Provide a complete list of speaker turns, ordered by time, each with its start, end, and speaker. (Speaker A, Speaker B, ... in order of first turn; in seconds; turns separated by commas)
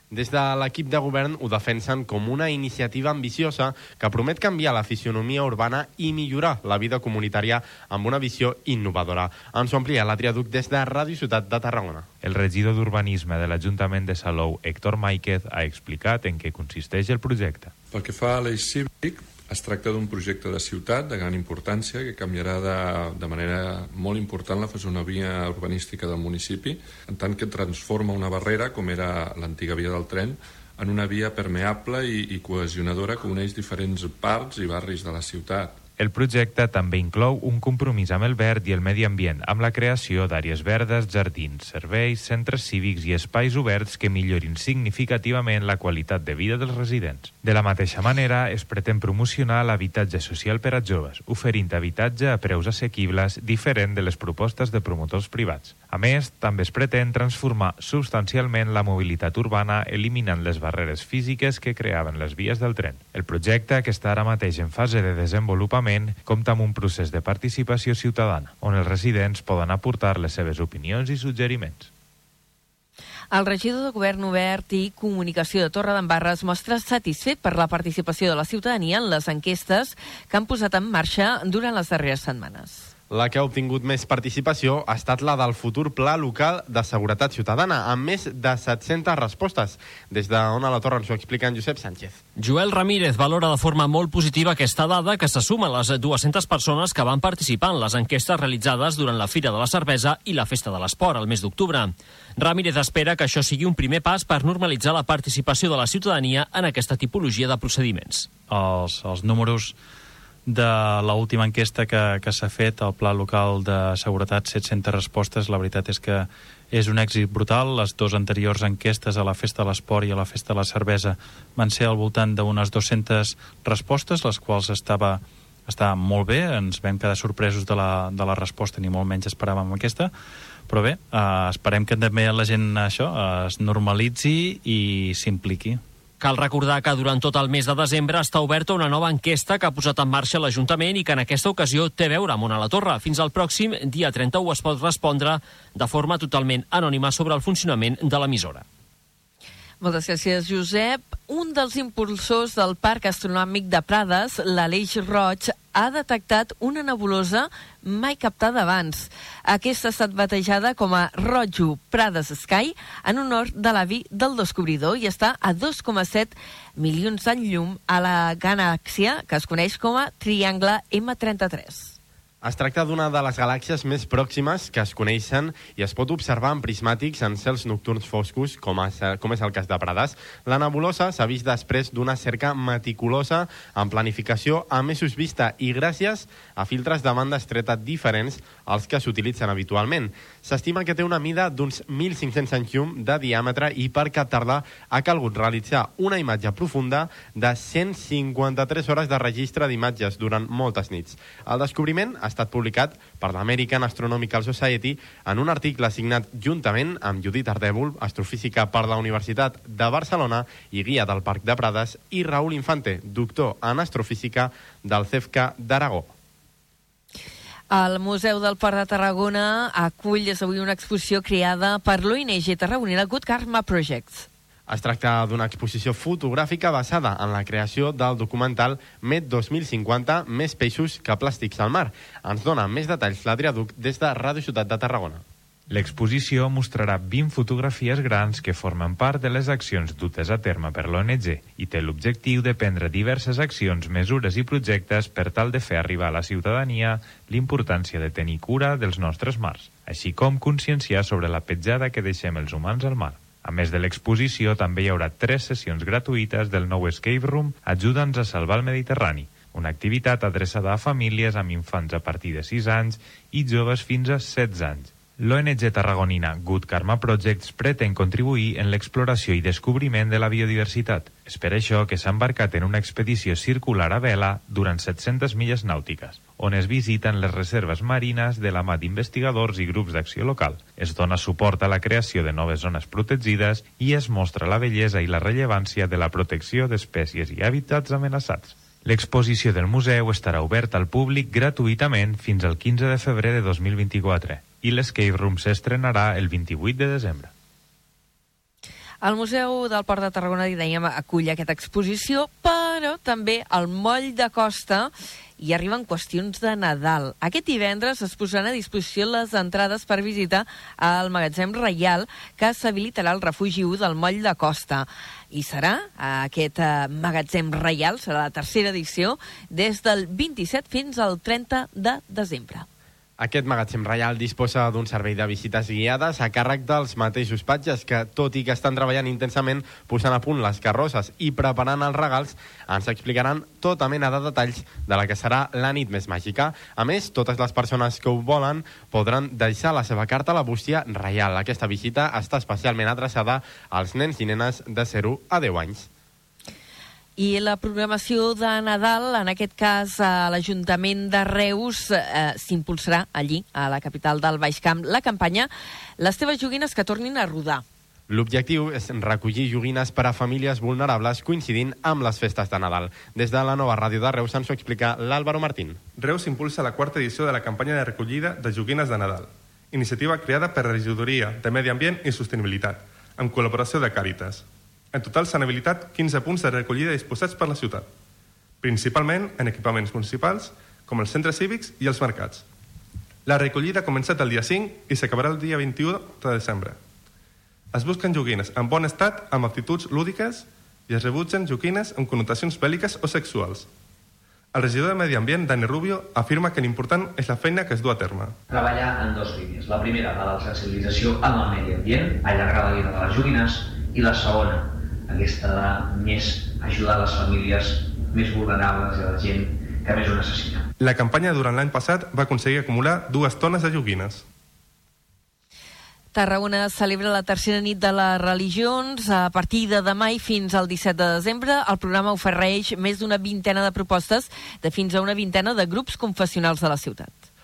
Speaker A: 0.1-12.1, Speaker B: 12.2-17.7, Speaker C: 17.9-35.8, Speaker B: 36.0-71.9, Speaker D: 73.3-82.9, Speaker A: 83.1-92.2, Speaker E: 92.4-108.3, Speaker F: 108.5-109.8, Speaker F: 110.5-130.1, Speaker F: 130.7-135.8, Speaker E: 136.2-148.7, Speaker D: 149.8-172.0, Speaker A: 172.4-216.1, Speaker D: 217.7-224.3, Speaker A: 224.7-235.2, Speaker B: 235.7-297.3, Speaker D: 299.0-322.7, Speaker A: 323.2-345.9, Speaker D: 347.2-357.6, Speaker A: 358.1-365.9, Speaker G: 365.9-377.9, Speaker G: 378.6-382.4, Speaker G: 383.3-386.8, Speaker G: 387.7-393.7, Speaker G: 394.5-398.3, Speaker H: 398.5-410.6, Speaker G: 410.8-414.2, Speaker D: 416.1-427.1